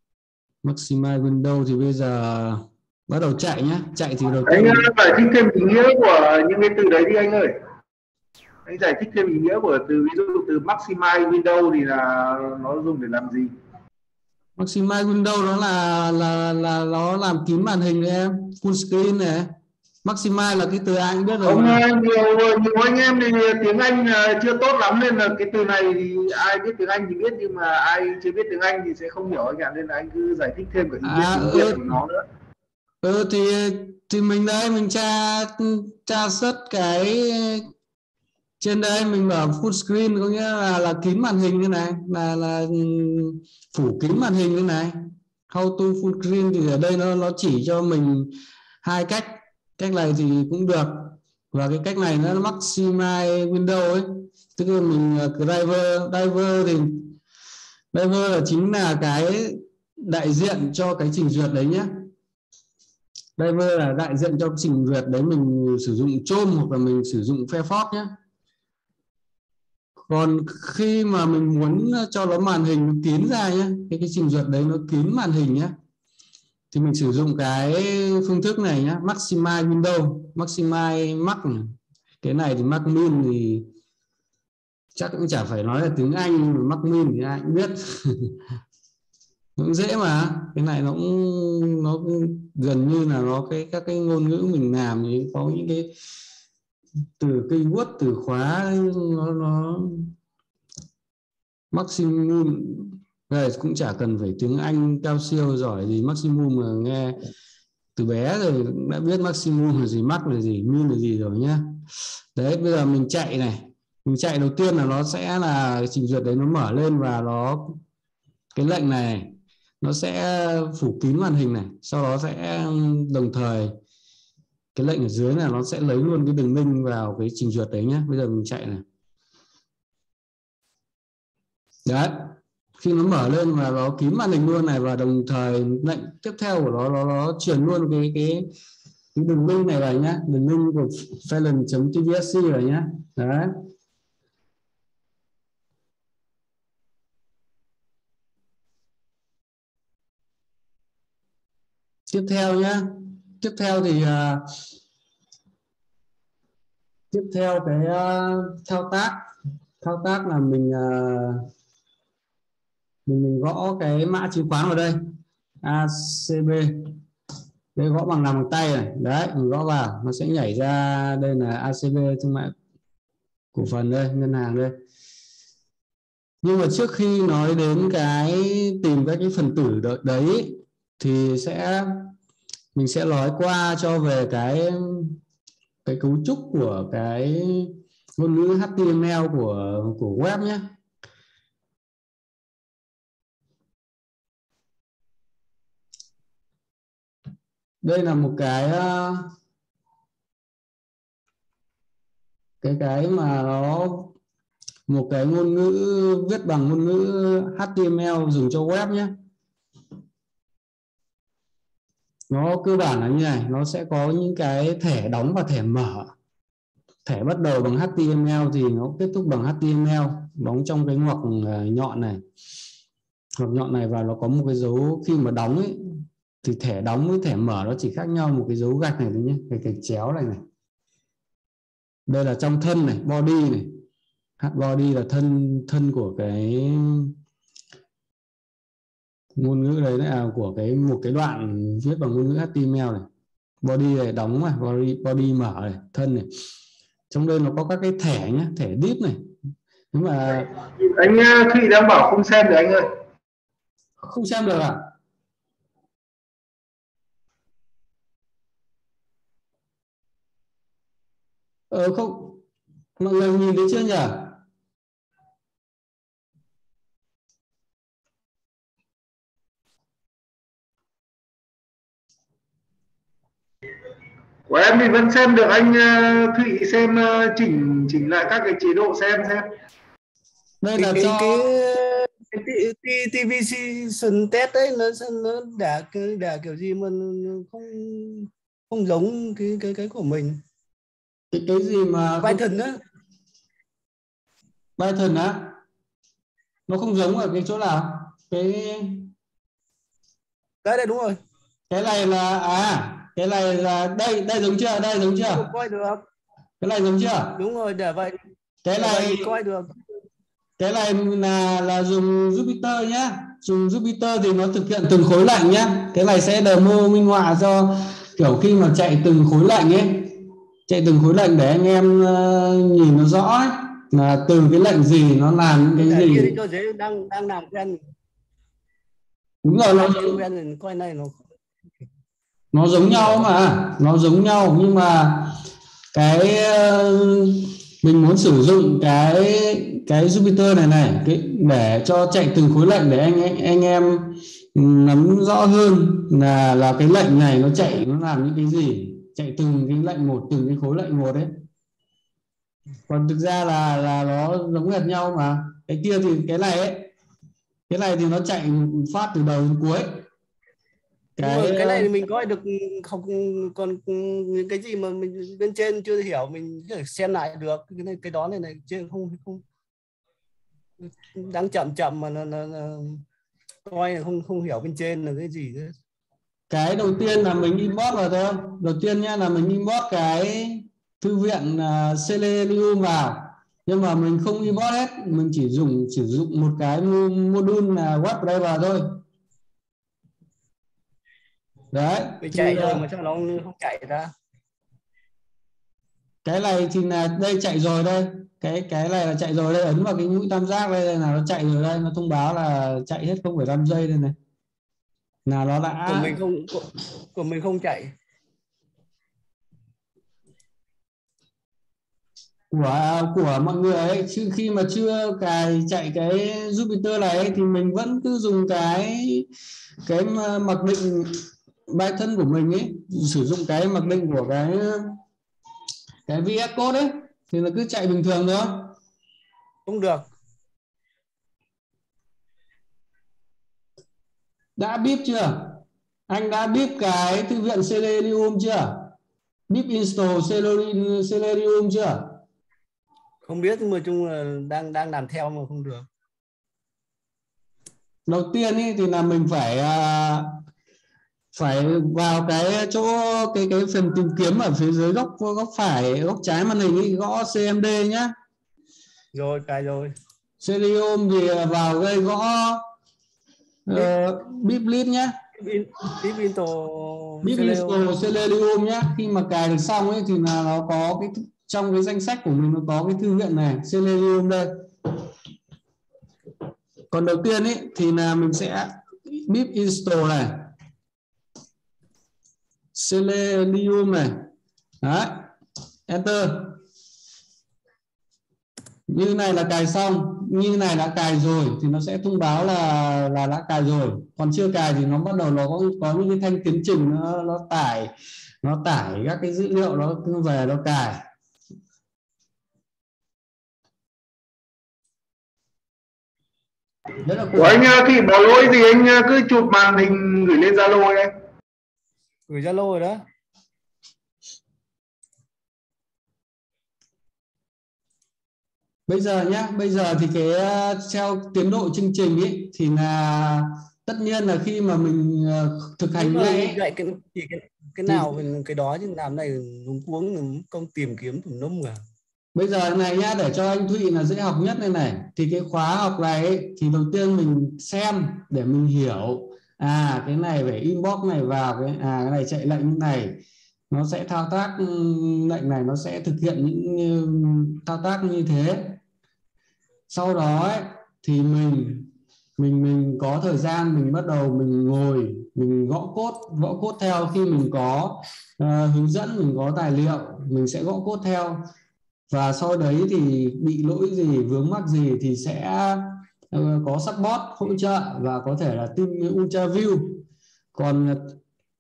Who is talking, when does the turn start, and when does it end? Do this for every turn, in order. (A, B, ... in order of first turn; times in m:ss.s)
0:00.6-0:04.9 A
0:04.5-0:07.6 B
0:08.7-0:13.5 B
0:14.6-0:19.5 A
0:20.0-0:21.8 A
0:21.4-0:32.2 B
0:31.0-0:32.0 A
0:33.0-0:37.7 A
0:38.6-0:45.0 A
0:45.5-0:57.1 A
0:57.9-1:02.1 A
1:03.4-1:08.1 A
1:10.1-1:15.7 A
1:16.7-1:21.7 A
1:22.2-1:23.7 A
1:25.0-1:28.4 A
1:29.6-1:35.9 A
1:37.2-1:40.1 A
1:41.7-1:47.2 A
1:48.0-1:51.6 A
1:52.4-1:57.8 A
1:58.6-2:03.7 A
2:04.8-2:08.8 A
2:11.9-2:18.5 A
2:19.2-2:23.5 A
2:32.1-2:34.5 A
2:37.1-2:39.2 A
2:39.8-2:41.4 A
2:43.1-2:45.0 A
2:45.6-2:46.9 A
2:47.8-2:52.5 A
2:53.5-2:54.7 A
2:56.4-3:02.1 A
3:02.8-3:05.2 A
3:05.8-3:10.6 A
3:17.8-3:19.3 A
3:22.6-3:24.1 A
3:24.9-3:29.1 A
3:32.3-3:36.1 A
3:37.1-3:42.2 A
3:43.4-3:45.8 A
3:46.4-3:50.4 A
3:52.1-3:53.7 A
3:54.4-3:57.1 A
3:59.4-4:03.1 A
4:03.6-4:06.3 A
4:07.1-4:09.2 A
4:09.9-4:10.5 A
4:10.8-4:12.8 B
4:14.0-4:14.8 A
4:21.7-4:22.4 A
4:23.0-4:24.4 A
4:34.5-4:39.5 B
4:40.6-4:41.5 A
4:40.8-4:50.4 C
4:51.3-4:52.4 A
4:52.2-4:52.8 C
4:54.8-4:55.5 A
4:56.7-4:59.1 A
5:00.6-5:01.2 C
5:01.7-5:05.5 A
5:05.3-5:06.0 C
5:06.6-5:07.4 A
5:07.4-5:08.2 C
5:08.6-5:09.3 A
5:08.8-5:09.7 C
5:10.6-5:20.1 A
5:20.7-5:26.4 A
5:25.8-5:27.8 C
5:29.4-5:30.2 A
5:29.8-5:31.3 C
5:32.5-5:35.4 A
5:35.9-5:51.3 A
5:52.9-5:56.9 A
5:57.7-5:59.9 A
6:01.2-6:01.9 A
6:01.2-6:09.4 C
6:10.8-6:13.0 C
6:13.7-6:15.7 C
6:16.5-6:29.0 A
6:31.7-6:32.8 A
6:32.2-6:34.1 C
6:36.2-6:44.2 A
6:45.3-6:46.2 A
6:45.9-6:47.9 C
6:52.5-6:59.3 A
6:59.8-7:01.2 A
7:01.7-7:05.0 A
7:06.1-7:08.7 A
7:09.7-7:10.1 C
7:14.6-7:18.9 A
7:19.5-7:22.2 A
7:23.2-7:25.9 C
7:28.1-7:30.3 A
7:31.3-7:38.1 A
7:39.1-7:39.9 C
7:40.4-7:42.6 A
7:43.7-7:45.2 A
7:45.4-7:47.8 C
7:47.2-7:54.5 A
7:56.9-8:00.5 A
8:02.7-8:04.2 A
8:04.8-8:05.3 A
8:05.9-8:06.6 A
8:08.9-8:17.9 A
8:18.4-8:21.0 A
8:27.0-8:27.8 A
8:27.4-8:31.1 B
8:32.3-8:33.0 C
8:38.9-8:46.6 A
8:46.0-8:51.8 C
8:47.9-8:48.2 A
8:52.4-9:03.2 A
9:03.7-9:08.8 A
9:09.9-9:21.4 A
9:22.1-9:31.2 A